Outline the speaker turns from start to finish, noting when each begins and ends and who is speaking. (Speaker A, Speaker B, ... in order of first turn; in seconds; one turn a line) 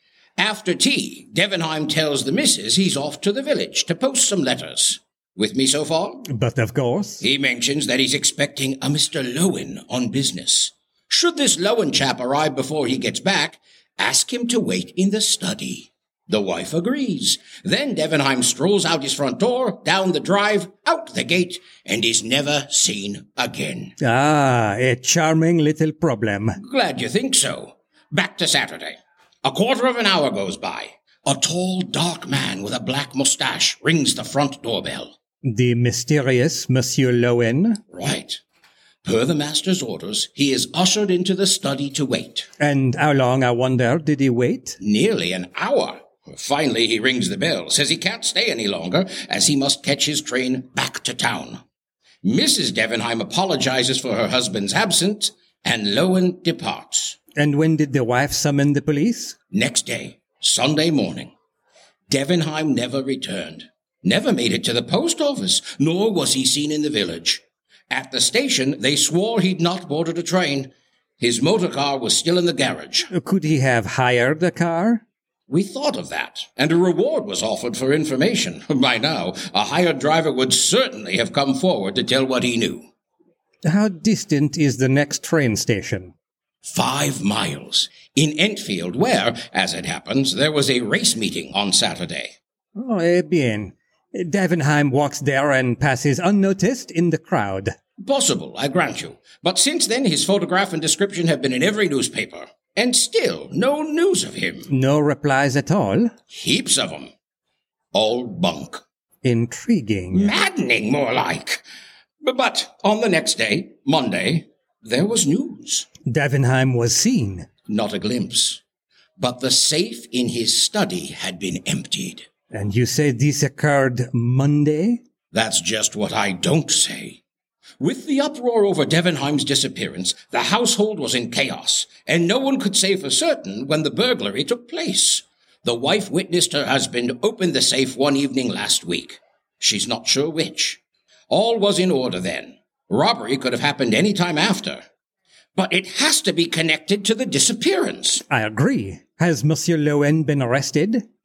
Speaker A: 0.4-6.3
Speaker B: 6.3-7.2
Speaker A: 7.2-23.9
Speaker B: 24.0-26.6
Speaker A: 26.6-35.1
Speaker B: 35.4-37.8
Speaker A: 37.9-38.4
Speaker A: 39.0-42.5
Speaker B: 42.6-44.8
Speaker A: 44.8-51.6
Speaker A: 52.2-57.2
Speaker B: 57.4-59.4
Speaker A: 59.5-61.3
Speaker A: 62.1-73.1
Speaker B: 73.1-75.0
Speaker A: 75.5-82.9
Speaker B: 83.6-86.1
Speaker A: 86.6-92.3
Speaker B: 92.8-97.7
Speaker A: 98.0-104.7
Speaker B: 104.7-106.1
Speaker A: 106.3-107.1
Speaker A: 107.9-108.8
Speaker B: 109.2-110.3
Speaker A: 110.1-111.6
Speaker A: 112.2-115.9
Speaker B: 116.0-117.5
Speaker A: 117.7-118.6
Speaker A: 119.2-122.3
Speaker B: 122.5-125.0
Speaker A: 125.3-127.2
Speaker A: 127.8-144.8
Speaker A: 145.6-148.2
Speaker B: 148.3-151.0